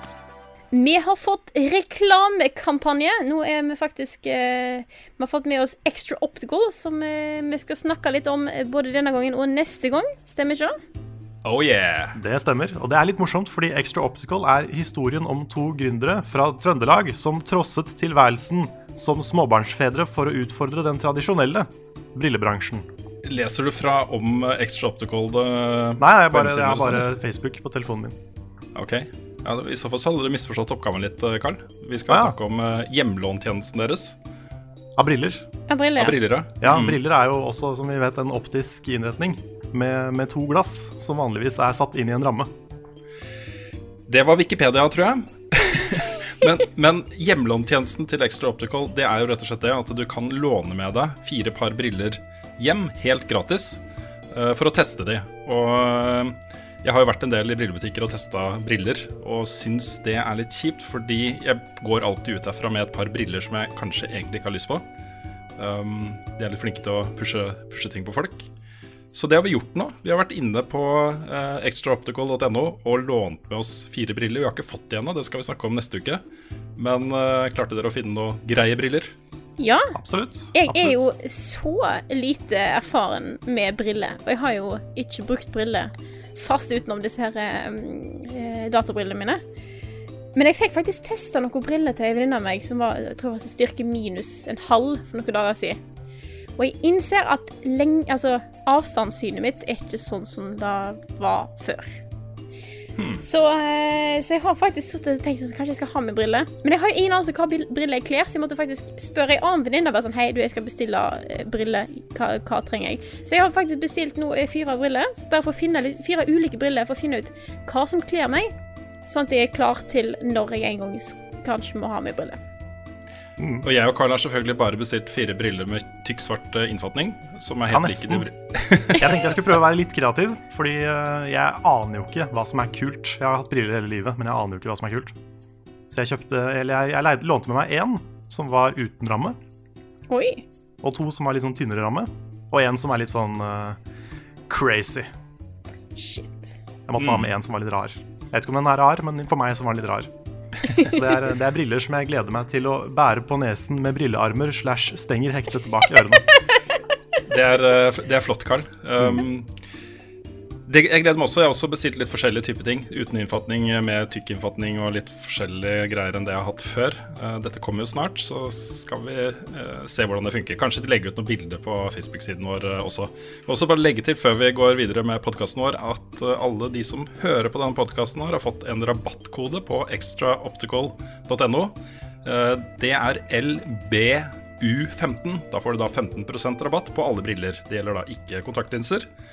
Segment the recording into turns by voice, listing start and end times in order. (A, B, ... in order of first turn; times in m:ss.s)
0:00.7-0:10.8 A
0:11.4-0:12.2 B
0:12.1-0:22.9 C
0:23.2-0:27.1 B
0:26.0-0:28.2 C
0:28.7-0:34.2 B
0:32.1-0:32.4 C
0:35.0-0:35.5 C
0:35.7-0:36.2 A
0:36.0-0:37.0 B
0:36.6-0:42.5 C
0:44.1-1:04.8 B
1:05.6-1:08.5 B
1:09.1-1:16.2 B
1:16.8-1:19.1 B
1:19.6-1:20.0 A
1:19.9-1:21.1 C
1:20.5-1:29.4 A
1:30.3-1:35.8 A
1:36.6-1:42.0 A
1:43.0-1:43.2 B
1:43.2-1:58.5 A
1:59.0-2:02.4 A
2:03.4-2:03.7 C
2:03.6-2:09.5 B
2:07.7-2:08.3 C
2:08.9-2:15.2 C
2:15.9-2:19.4 C
2:20.1-2:20.4 A
2:20.8-2:23.8 C
2:24.5-2:25.1 C
2:26.0-2:26.5 A
2:26.9-2:30.1 C
2:27.0-2:27.3 B
2:30.6-2:30.9 A
2:30.7-2:36.2 C
2:37.3-2:39.5 B
2:39.0-2:39.2 C
2:40.6-3:09.1 B